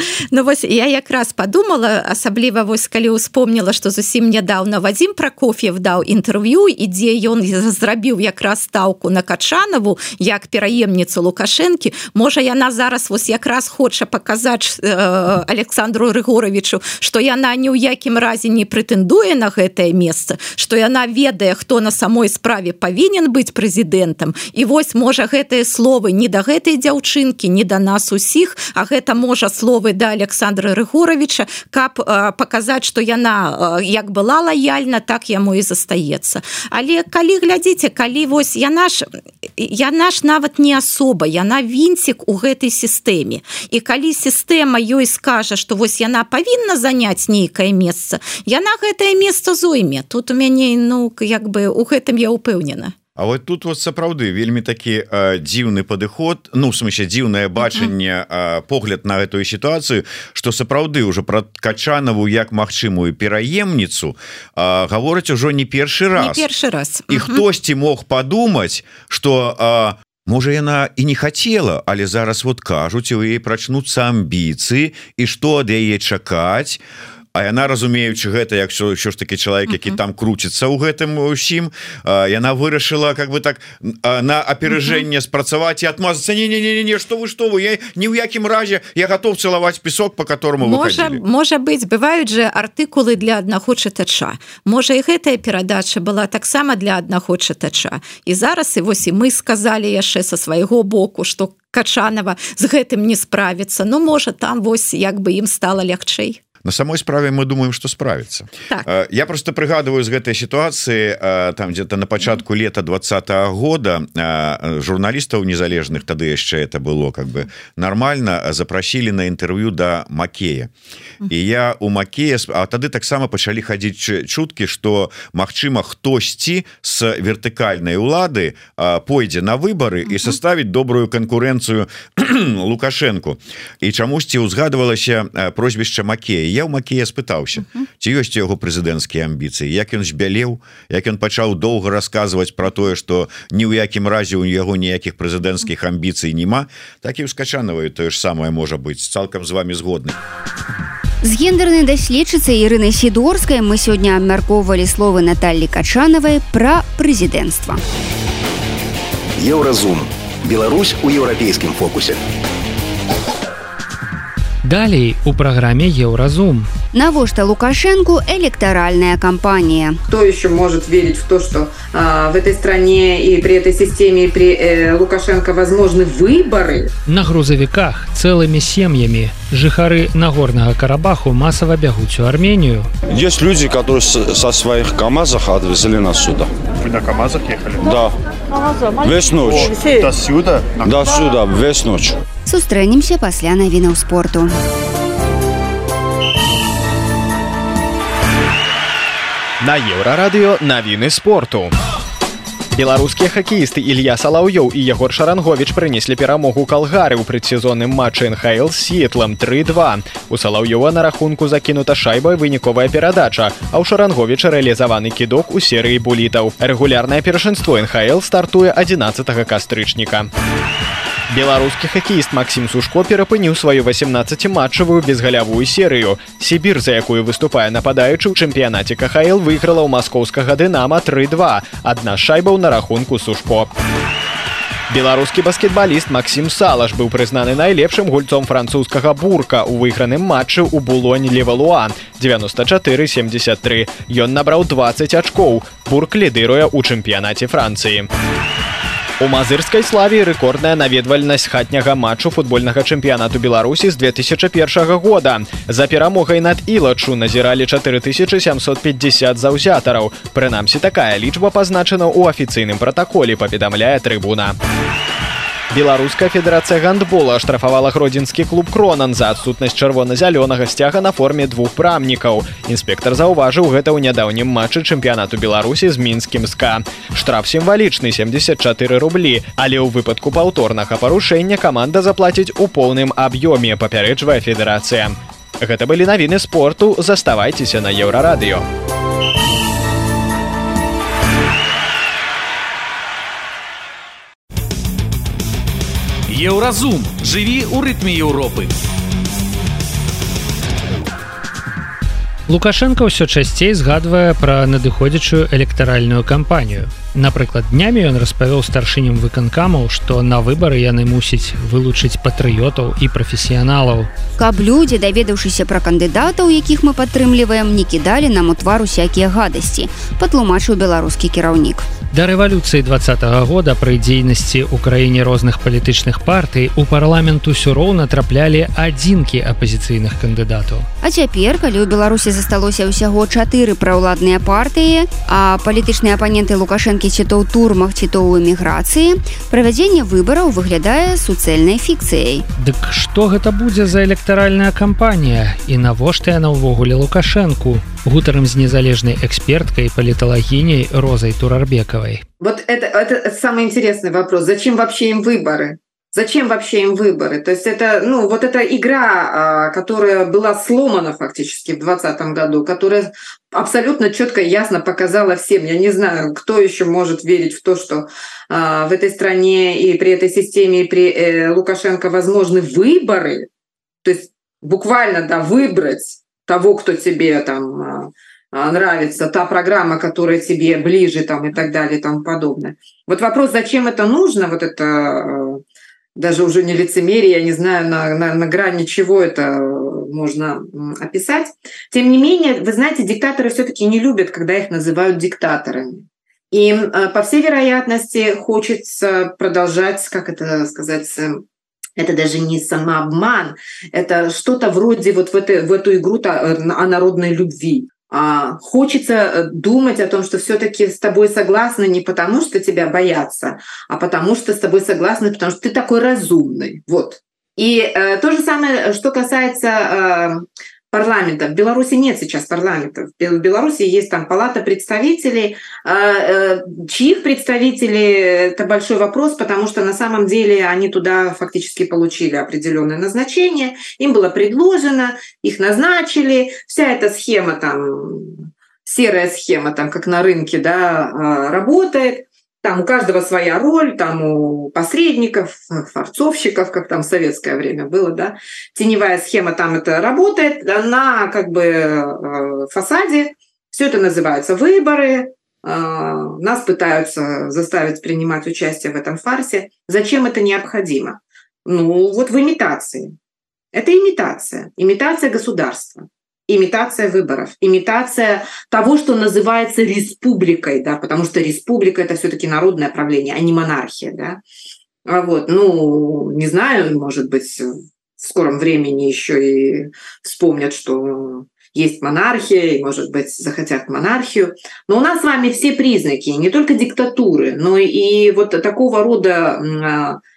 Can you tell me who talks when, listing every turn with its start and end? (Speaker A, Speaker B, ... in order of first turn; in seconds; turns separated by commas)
Speaker A: 0.3-53.0, Speaker B: 53.2-66.5, Speaker A: 66.2-67.4, Speaker B: 67.1-76.8, Speaker B: 77.3-91.2, Speaker A: 90.6-106.4, Speaker B: 106.6-120.7, Speaker B: 121.3-150.2, Speaker C: 151.2-157.8, Speaker D: 159.4-162.2, Speaker E: 164.6-166.7, Speaker C: 166.9-170.0, Speaker F: 170.1-176.9, Speaker E: 177.1-182.9, Speaker G: 183.1-186.5, Speaker H: 186.8-187.9, Speaker G: 187.8-188.1, Speaker G: 189.0-189.7, Speaker H: 189.4-191.1, Speaker G: 190.8-192.2, Speaker C: 192.5-194.5, Speaker I: 199.6-201.7, Speaker I: 202.8-220.3, Speaker I: 221.3-233.7, Speaker I: 234.9-248.1, Speaker I: 249.2-264.6, Speaker I: 265.7-288.6, Speaker J: 296.3-298.8, Speaker E: 302.5-314.1, Speaker C: 314.4-321.9, Speaker E: 322.1-330.9, Speaker C: 331.0-342.5, Speaker E: 342.6-352.2, Speaker F: 352.4-373.5, Speaker F: 374.0-385.6, Speaker F: 386.2-401.4, Speaker F: 402.0-463.1, Speaker F: 463.7-474.4, Speaker F: 475.1-490.2